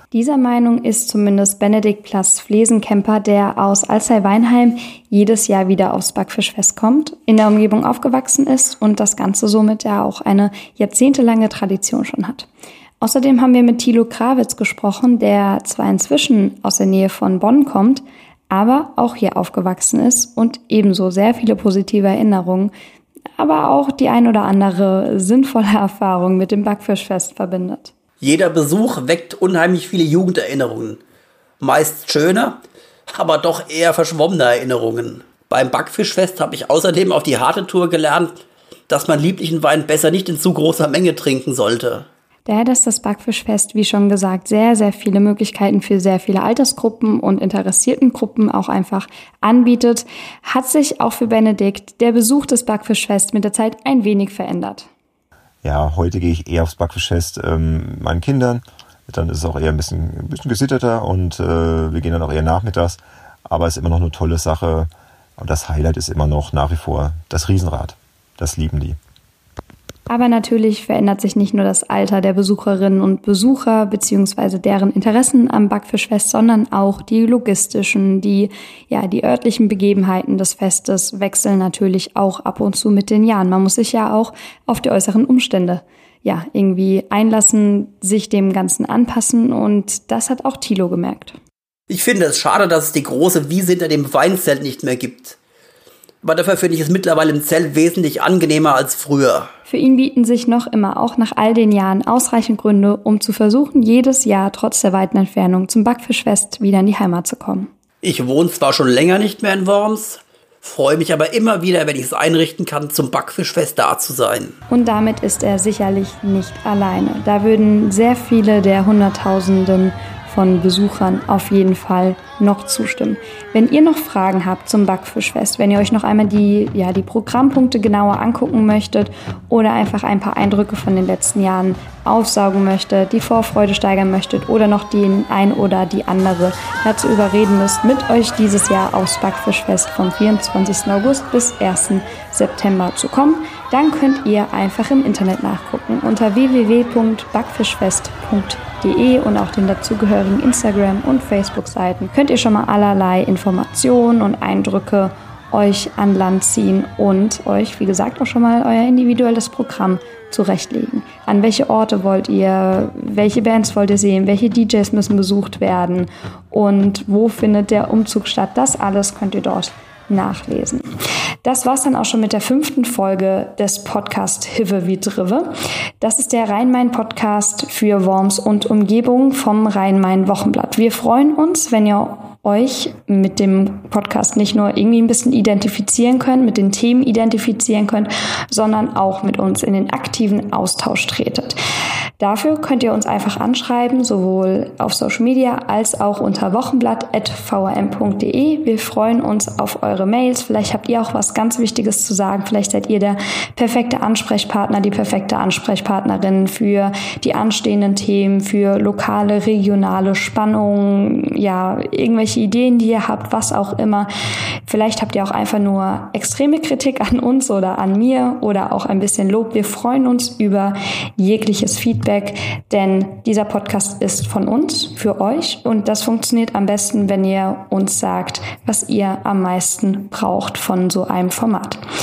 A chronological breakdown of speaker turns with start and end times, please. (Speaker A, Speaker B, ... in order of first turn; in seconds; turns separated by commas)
Speaker A: 0.1-12.5, Speaker A: 13.0-22.7, Speaker A: 23.4-27.9, Speaker B: 28.2-31.0, Speaker B: 31.6-38.3, Speaker B: 38.9-42.1, Speaker A: 42.5-54.9, Speaker C: 55.6-69.0, Speaker A: 70.1-91.4, Speaker B: 91.9-95.4, Speaker B: 96.2-99.5, Speaker A: 99.7-107.7, Speaker B: 108.0-114.5, Speaker A: 114.7-170.9, Speaker A: 171.4-191.6, Speaker A: 192.2-214.1, Speaker A: 214.7-231.8